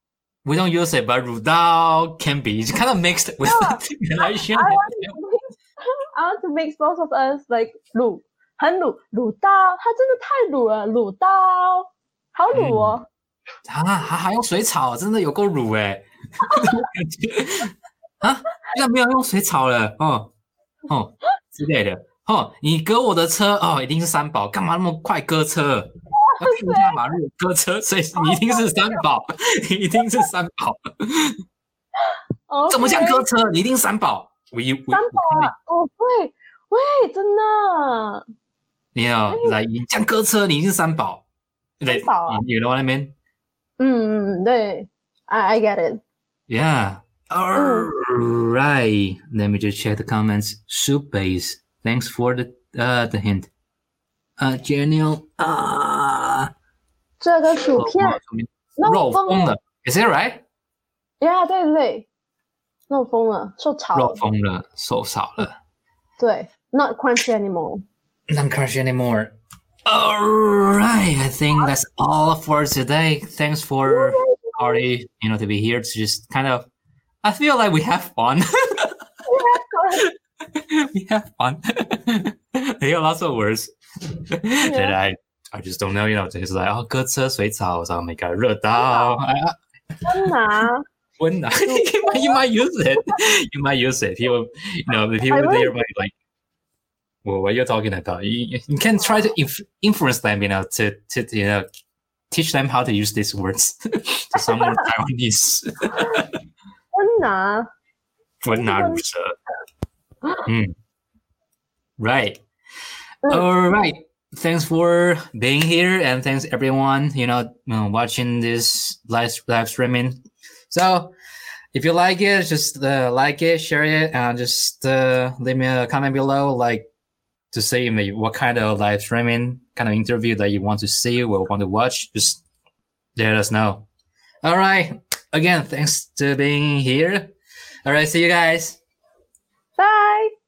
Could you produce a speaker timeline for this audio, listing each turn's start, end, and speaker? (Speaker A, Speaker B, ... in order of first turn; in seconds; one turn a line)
Speaker A: 0.5-5.2
Speaker B: 3.4-13.1
Speaker A: 12.5-13.0
Speaker A: 13.7-20.3
Speaker B: 16.5-16.9
Speaker A: 20.9-31.4
Speaker B: 26.1-27.0
Speaker B: 28.2-29.0
Speaker B: 30.0-30.3
Speaker B: 32.1-33.3
Speaker A: 32.7-35.5
Speaker B: 34.9-38.2
Speaker A: 39.0-41.2
Speaker B: 39.3-39.6
Speaker A: 41.8-43.1
Speaker B: 41.9-42.4
Speaker B: 43.8-46.0
Speaker A: 46.5-53.5
Speaker B: 47.5-47.9
Speaker A: 54.4-56.5
Speaker B: 57.2-58.2
Speaker A: 57.7-60.4
Speaker B: 58.8-59.5
Speaker B: 61.2-62.1
Speaker B: 62.9-64.2
Speaker A: 63.9-65.6
Speaker B: 66.2-67.8
Speaker A: 68.3-69.3
Speaker A: 69.9-76.7
Speaker B: 73.9-74.8
Speaker A: 77.2-79.0
Speaker B: 79.3-80.0
Speaker A: 79.9-90.0
Speaker B: 84.6-85.0
Speaker B: 88.8-89.2
Speaker B: 90.1-90.8
Speaker A: 91.2-96.1
Speaker B: 91.7-92.4
Speaker B: 95.3-95.7
Speaker A: 97.2-101.7
Speaker A: 102.3-106.4
Speaker B: 104.3-104.9
Speaker B: 105.9-106.2
Speaker B: 106.9-107.7
Speaker A: 108.4-109.3
Speaker B: 108.5-109.0
Speaker A: 110.5-110.7
Speaker A: 112.0-112.4
Speaker A: 113.3-121.1
Speaker A: 121.7-126.9
Speaker A: 127.5-132.4
Speaker A: 133.2-133.9
Speaker A: 134.4-137.3
Speaker A: 137.8-138.8
Speaker B: 139.8-140.3